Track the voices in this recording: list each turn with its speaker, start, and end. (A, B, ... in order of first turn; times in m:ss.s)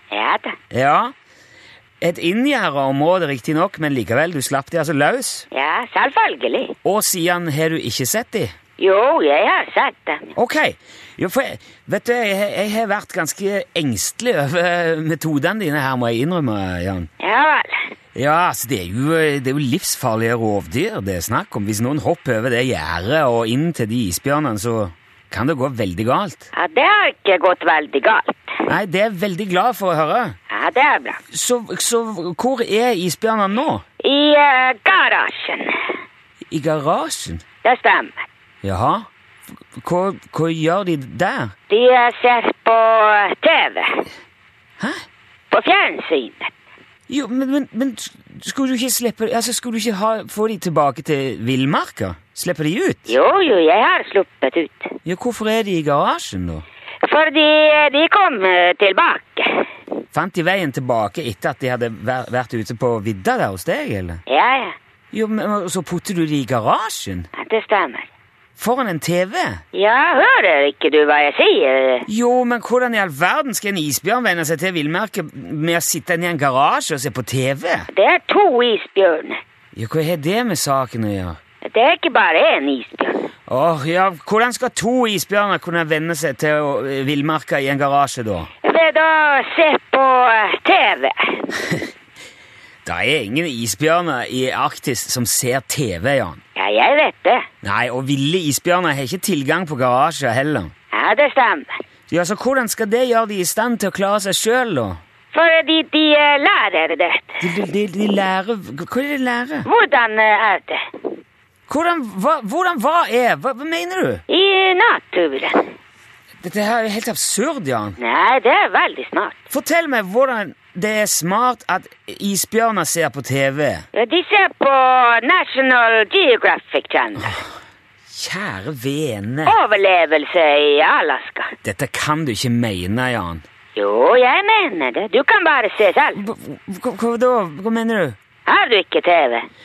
0:00.1-0:00.6 A
0:00.7-0:01.1 B
0:02.0-0:05.5 B
0:05.5-0:06.8 A
0:06.8-0:08.5 B
0:08.8-0:10.3 A
0:10.4-0:17.1 B
0:17.2-0:17.8 A
0:18.2-0:26.5 B
0:26.5-0:28.6 A
0:28.7-0:30.4 B
0:30.5-0:31.2 A
0:31.3-0:33.8 B
0:34.0-0:35.7 A
0:36.5-0:37.4 B
0:37.6-0:38.2 A
0:38.6-0:39.1 B
0:39.8-0:41.5 B
0:41.7-0:44.1 A
0:45.5-0:46.5 A
0:47.1-0:53.2 B
0:53.1-0:54.9 A
0:55.0-0:56.6 B
0:57.0-0:59.7 A
1:00.1-1:04.2 B
1:04.3-1:04.7 A
1:05.1-1:07.3 B
1:07.4-1:08.1 A
1:08.6-1:09.6 B
1:09.7-1:12.1 A
1:12.1-1:17.9 B
1:17.9-1:19.4 A
1:19.8-1:21.4 B
1:21.6-1:23.3 A
1:23.5-1:28.5 B
1:28.6-1:31.6 A
1:32.8-1:36.4 B
1:36.6-1:37.5 A
1:37.6-1:40.7 B
1:40.9-1:41.7 A
1:42.1-1:45.0 B
1:45.3-1:47.4 A
1:47.4-1:49.7 B
1:49.6-1:50.8 A
1:51.7-1:54.2 B
1:54.3-1:55.7 A
1:56.4-1:58.0 B
1:58.0-1:59.4 A
1:59.5-2:03.8 B
2:03.9-2:07.4 A
2:08.1-2:09.6 B
2:09.5-2:11.6 A
2:11.6-2:13.4 B
2:13.8-2:16.2 A
2:16.2-2:18.2 B
2:18.5-2:19.5 A